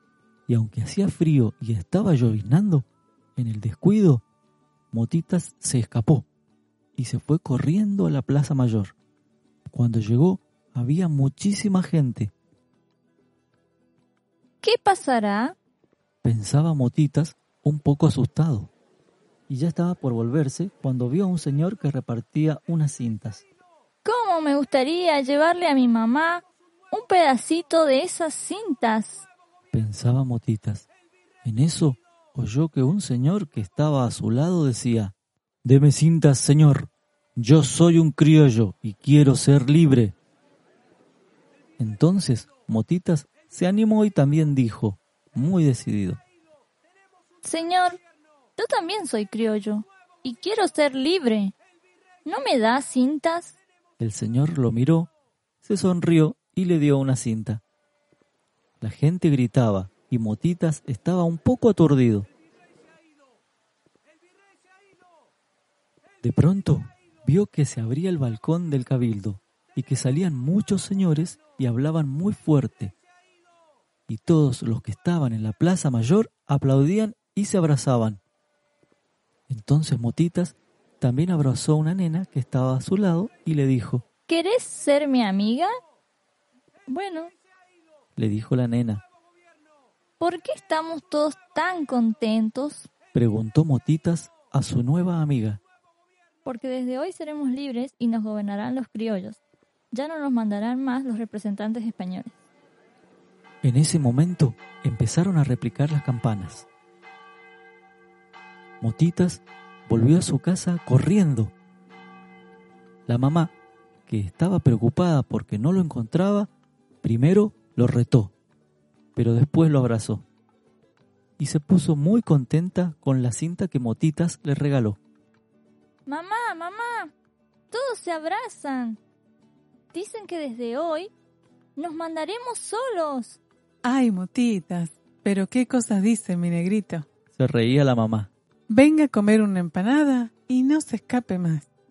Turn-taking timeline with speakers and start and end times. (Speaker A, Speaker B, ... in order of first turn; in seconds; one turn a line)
Speaker A: 0.5-4.2
Speaker A: 4.9-6.3
Speaker A: 7.0-8.9
Speaker A: 9.7-12.3
Speaker B: 14.6-15.6
Speaker A: 16.2-18.7
Speaker A: 19.5-23.5
Speaker B: 24.0-29.3
Speaker A: 29.7-30.9
Speaker A: 31.4-40.2
Speaker A: 41.8-46.2
Speaker B: 47.4-48.0
Speaker B: 48.6-51.5
Speaker B: 52.2-53.6
Speaker A: 54.0-55.1
Speaker A: 55.6-57.6
Speaker A: 58.8-62.3
Speaker A: 66.2-72.9
Speaker A: 74.1-78.2
Speaker A: 79.5-84.0
Speaker B: 84.3-85.7
Speaker B: 86.9-87.3
Speaker A: 88.2-89.0
Speaker B: 90.2-92.9
Speaker A: 93.1-95.6
Speaker B: 96.5-99.4
Speaker B: 99.9-102.3
Speaker A: 103.6-106.7
Speaker A: 108.8-111.5
Speaker A: 113.1-113.5
Speaker A: 114.1-116.5
Speaker A: 117.0-118.3
Speaker A: 119.2-120.3
Speaker A: 121.4-125.0
Speaker B: 126.1-127.1
Speaker B: 127.7-129.0
Speaker B: 129.9-131.1
Speaker B: 131.8-133.4
Speaker C: 133.8-137.1
Speaker A: 137.3-138.3
Speaker C: 138.7-141.7